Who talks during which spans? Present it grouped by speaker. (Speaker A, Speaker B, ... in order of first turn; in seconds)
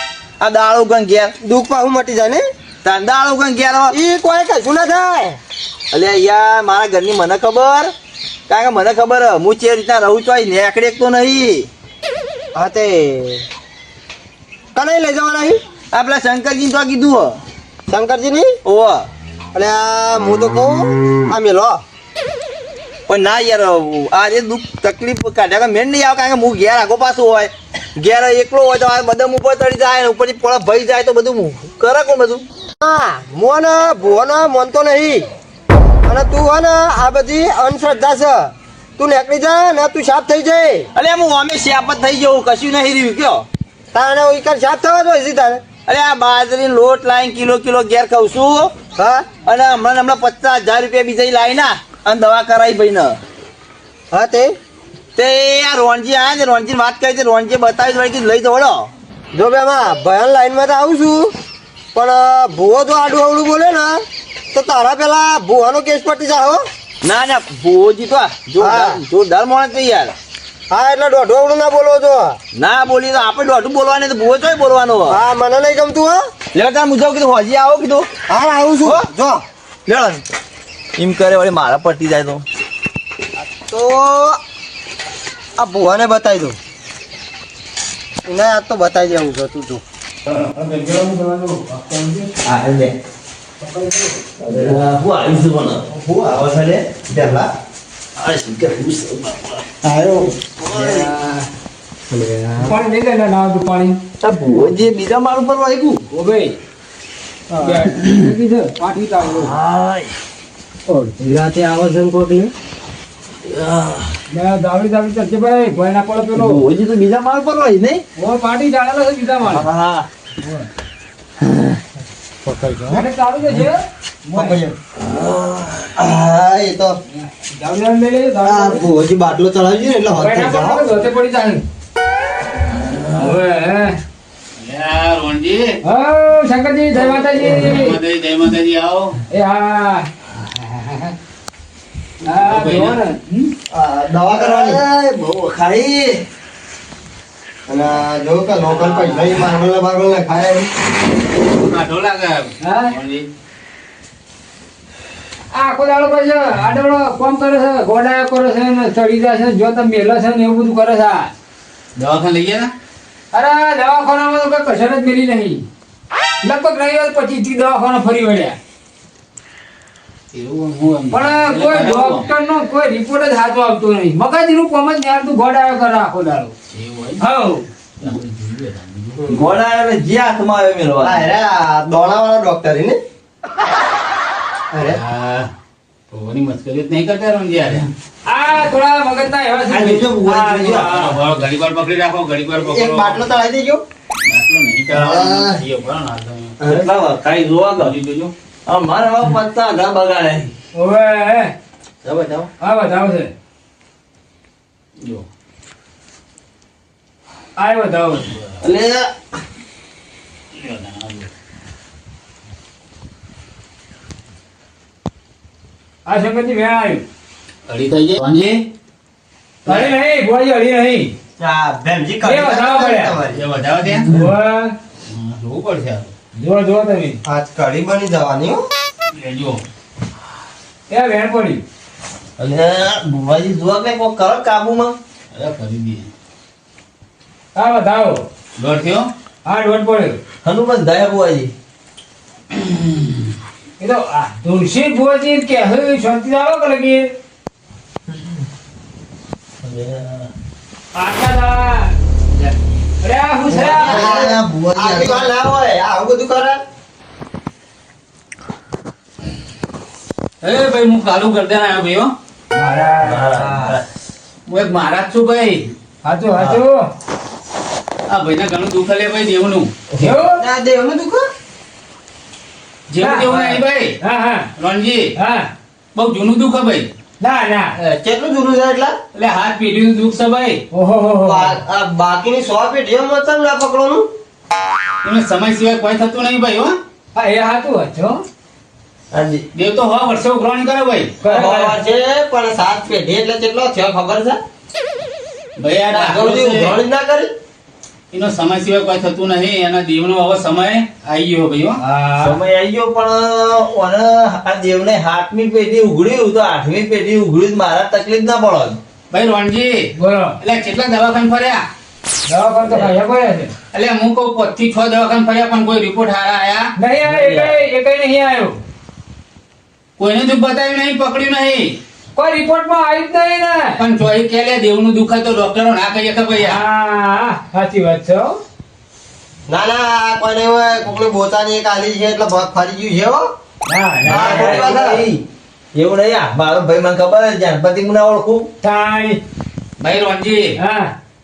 Speaker A: 0.4-1.4, 2.8-4.0, 5.9-7.9, 8.5-11.7, 15.9-17.4, 18.6-19.1, 23.1-32.5, 40.9-43.5, 45.9-48.7, 49.5-53.2, 55.1-58.9, 67.0-70.2, 72.5-75.2, 76.5-78.1, 79.9-80.2, 81.0-82.4, 92.4-93.0, 94.5-95.8, 98.2-99.7, 100.5-101.1, 104.2-106.0, 107.8-108.2, 109.2-110.2, 113.4-114.2, 116.3-118.0, 119.4-120.1, 124.4-126.0, 132.9-133.3, 144.3-146.2, 179.3-181.2, 196.6-197.9, 198.7-200.5, 202.1-202.5, 208.6-209.1, 232.4-235.0, 240.4-241.5, 249.6-250.3, 253.5-255.3, 263.0-263.8, 289.1-289.4, 302.2-308.8, 312.7-312.9, 317.1-317.6, 334.1-335.2, 335.7-338.5
Speaker B: 1.4-2.5, 3.9-5.4, 12.6-13.4, 14.8-15.6, 17.9-18.6, 19.5-21.8, 32.8-35.3, 36.1-40.9, 43.9-45.6, 49.0-49.3, 54.1-54.6, 59.3-61.3, 61.9-66.6, 68.6-69.0, 70.7-72.4, 75.1-76.2, 78.3-79.4, 83.4-84.4, 85.6-86.6, 88.3-89.8, 95.9-97.5, 99.8-100.4, 102.1-102.8, 111.2-112.5, 122.5-123.0, 124.4-124.7, 126.0-127.0, 128.4-130.8, 143.7-144.8, 147.7-150.7, 179.2-179.4, 181.0-183.0, 184.7-185.0, 189.7-191.2, 192.6-193.8, 194.9-195.6, 221.4-223.4, 227.3-228.6, 253.5-256.6, 263.2-263.8, 270.0-271.3, 277.8-278.9, 281.2-284.1, 291.2-294.4, 295.9-297.3, 329.5-333.3, 334.1-335.1
Speaker C: 90.3-92.3, 93.6-94.2, 100.7-101.5, 102.6-104.0, 106.1-106.5, 107.6-109.6, 114.3-116.6, 118.2-119.7, 120.4-120.7, 122.9-124.6, 127.2-128.8, 130.1-131.6, 133.2-134.0, 135.8-138.0, 139.3-141.1, 142.2-143.4, 152.6-152.9, 155.5-161.3, 163.3-165.7, 166.4-168.6, 171.1-176.5, 177.2-177.7, 188.2-190.2, 200.7-201.5, 202.6-203.3, 207.6-208.3, 216.1-217.0, 219.7-221.1, 222.2-223.2, 224.1-224.7, 226.3-227.2, 230.9-231.6, 237.6-238.2, 239.4-240.2, 243.8-247.1, 250.9-251.9, 253.0-254.0, 262.5-263.3, 266.0-266.9, 270.0-270.4, 273.0-274.5, 275.2-275.5, 277.2-277.8, 280.7-281.6, 287.1-288.2, 291.2-291.8, 301.8-302.4, 310.0-310.4, 312.3-313.5, 316.8-318.6, 322.1-323.8, 326.4-328.4, 333.7-334.6, 338.6-339.2, 340.6-340.9
Speaker D: 134.6-135.8, 137.5-139.2, 142.2-143.0, 148.7-149.5, 151.5-153.3, 162.0-162.7, 170.3-172.3, 176.7-177.3, 178.0-179.3, 184.9-185.5, 186.1-187.9, 190.4-193.3, 194.2-196.6, 197.8-198.3, 205.0-205.3, 210.5-211.3, 217.7-218.7, 219.7-219.9, 223.3-224.1, 225.1-226.1, 229.1-229.6, 235.3-236.1, 238.6-239.1, 242.5-243.2, 260.4-262.1, 264.5-265.7, 268.1-269.7, 272.9-273.9, 274.6-275.1, 275.9-276.9, 279.1-280.6, 285.0-286.8, 289.5-291.2, 295.6-296.8, 298.1-301.8, 309.1-311.6, 313.7-316.7, 320.0-321.8, 323.8-326.6, 339.8-340.6